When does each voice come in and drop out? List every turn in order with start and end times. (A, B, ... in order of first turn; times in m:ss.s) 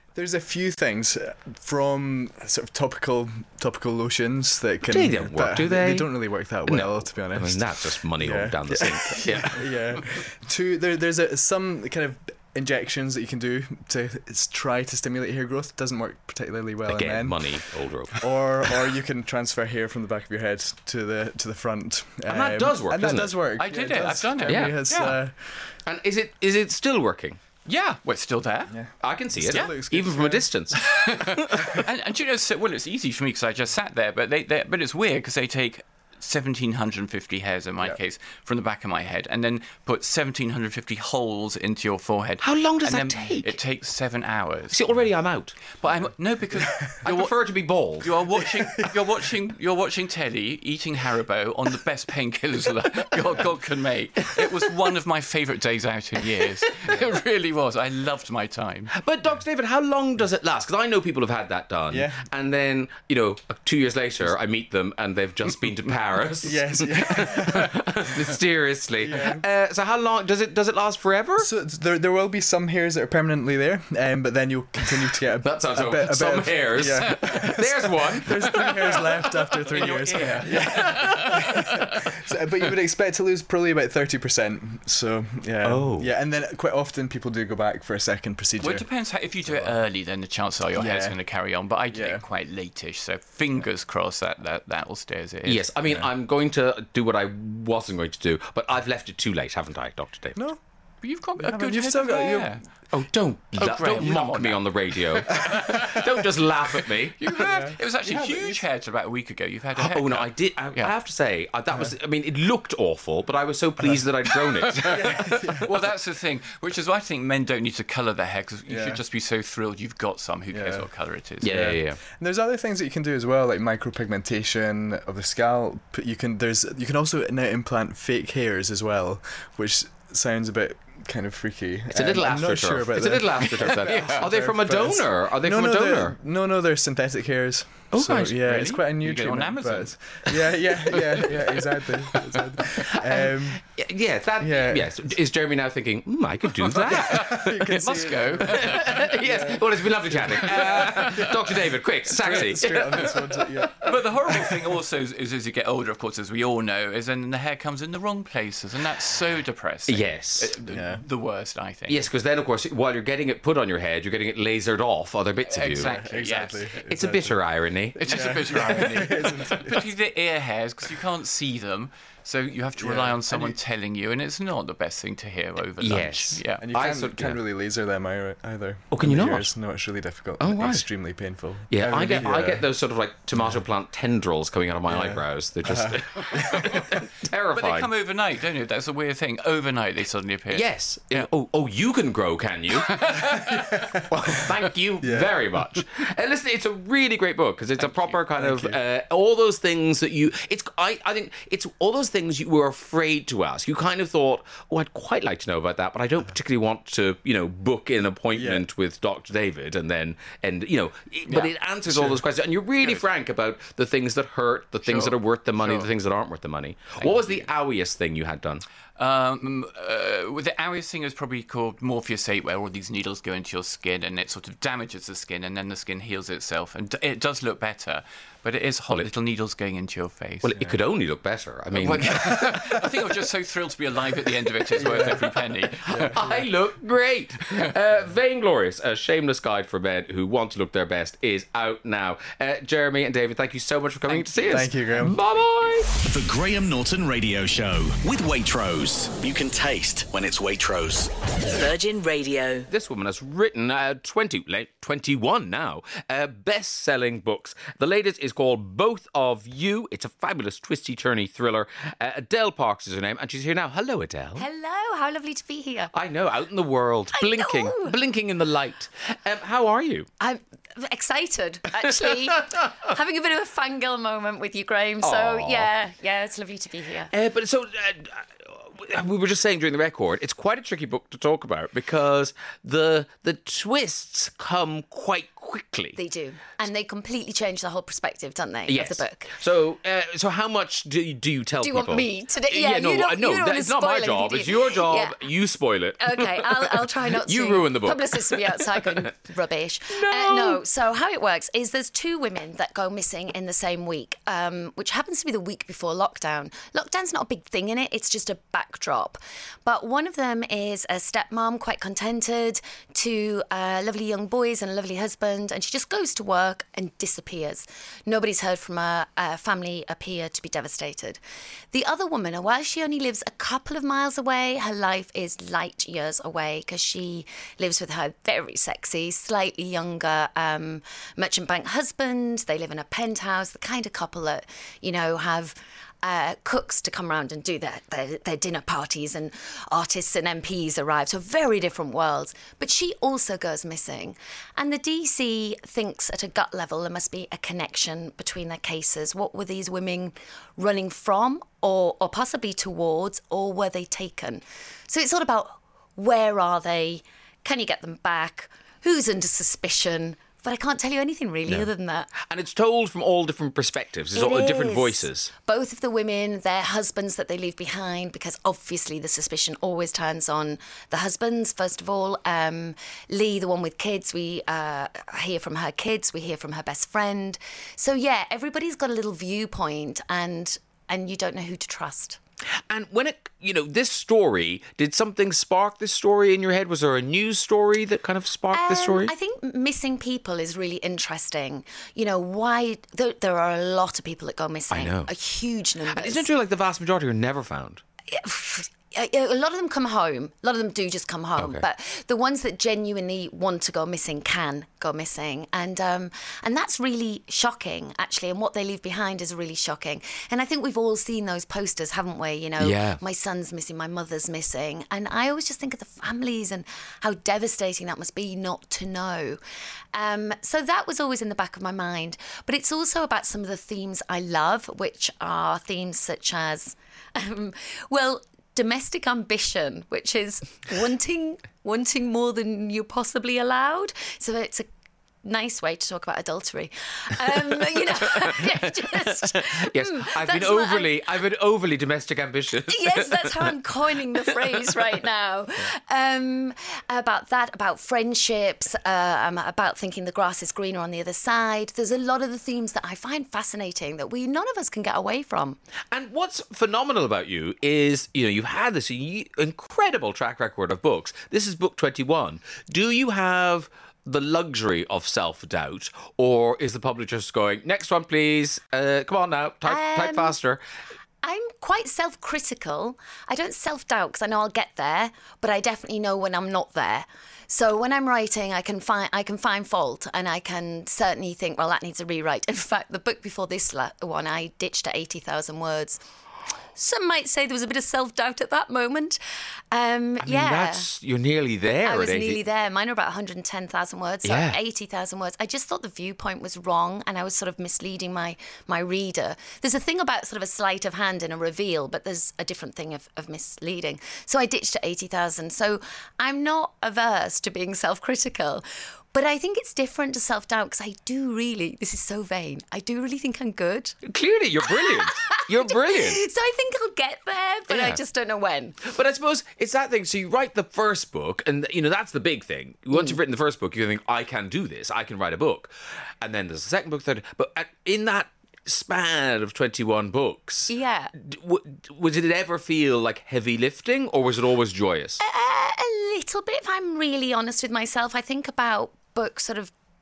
0:00.1-0:25.8 A
0:04.9-0:09.9 B
0:16.9-0:18.6 B
0:22.3-0:23.4 B
0:23.6-0:25.2 C
0:24.4-0:24.7 B
0:25.8-0:27.4 B
0:27.6-0:29.0 C
0:28.7-0:30.5 A
0:29.0-0:31.4 B
0:30.7-0:45.1 C
0:42.4-0:43.5 B
0:44.7-0:45.6 B
0:45.8-0:58.9 C
0:47.0-0:48.1 B
0:48.4-0:48.9 A
0:59.0-1:11.5 B
1:01.9-1:02.3 A
1:06.4-1:07.9 A
1:09.0-1:09.4 A
1:11.4-1:28.9 A
1:15.4-1:18.9 B
1:19.6-1:21.6 C
1:19.8-1:21.3 B
1:25.6-1:26.1 B
1:28.6-1:35.7 C
1:29.4-1:29.8 A
1:30.7-1:32.2 A
1:35.4-1:40.4 B
1:40.3-1:42.6 A
1:41.0-1:42.9 C
1:42.9-1:47.2 B
1:43.6-1:46.0 C
1:47.2-1:50.9 C
1:47.4-1:48.6 A
1:49.8-1:55.1 B
1:54.8-2:01.8 C
1:54.8-1:55.7 A
1:58.6-1:59.0 A
2:00.5-2:23.8 A
2:01.4-2:02.0 B
2:11.9-2:16.2 B
2:13.5-2:14.3 C
2:17.9-2:18.4 B
2:18.4-2:21.6 C
2:23.2-2:27.3 B
2:24.4-2:25.2 A
2:26.7-2:34.6 A
2:26.8-2:29.2 C
2:28.7-2:33.2 B
2:30.3-2:31.1 C
2:33.8-2:42.0 C
2:39.9-2:40.5 B
2:40.7-2:41.0 A
2:41.9-2:45.9 B
2:45.5-2:46.7 C
2:45.8-2:49.9 A
2:46.9-2:48.4 B
2:48.0-2:56.6 C
2:52.8-2:53.6 A
2:55.8-2:57.4 B
2:56.6-3:02.7 A
2:58.9-3:07.9 B
3:03.4-3:03.6 A
3:04.9-3:06.8 A
3:07.5-3:11.3 C
3:10.5-3:13.2 B
3:12.9-3:14.0 C
3:14.1-3:38.6 B
3:15.0-3:15.8 A
3:17.8-3:18.2 C
3:18.3-3:18.8 A
3:28.3-3:28.6 A
3:31.9-3:32.2 A
3:34.8-3:35.9 C
3:37.0-3:37.5 C
3:39.0-3:50.7 C
3:50.4-3:52.8 B
3:51.7-3:56.2 C
3:54.8-3:56.4 A
3:55.9-4:05.9 B
4:04.4-4:05.2 A
4:06.0-4:12.7 D
4:12.7-4:24.4 B
4:24.4-4:25.9 E
4:25.9-4:30.1 B
4:27.1-4:28.0 E
4:30.2-4:37.1 E
4:31.9-4:32.7 B
4:35.0-4:35.7 B
4:37.1-4:46.0 B
4:46.0-4:49.3 E
4:48.7-4:59.1 B
4:51.6-4:55.2 E
4:56.0-5:21.2 E
4:59.9-5:00.6 B
5:21.7-6:02.1 E
6:01.4-6:05.3 B
6:04.1-6:22.2 E
6:22.7-6:29.1 B
6:28.5-6:36.3 E
6:34.7-6:35.1 B
6:35.9-6:37.8 B
6:38.1-6:59.4 E
6:41.4-6:41.6 B
6:52.6-6:53.0 B
6:59.9-7:14.7 E
7:15.2-7:20.9 E
7:18.0-7:24.8 B
7:22.7-7:35.6 E
7:35.9-7:50.6 B
7:49.6-7:50.3 E
7:51.2-8:06.0 E
8:06.7-8:09.2 E
8:09.7-8:10.9 E
8:10.2-8:12.4 B
8:11.8-8:34.0 E
8:14.2-8:14.6 B
8:34.0-8:36.2 B
8:34.6-8:38.8 E
8:37.7-8:38.0 B
8:38.8-8:55.2 B
8:42.9-8:43.2 E
8:50.7-8:51.1 E
8:55.2-8:59.7 E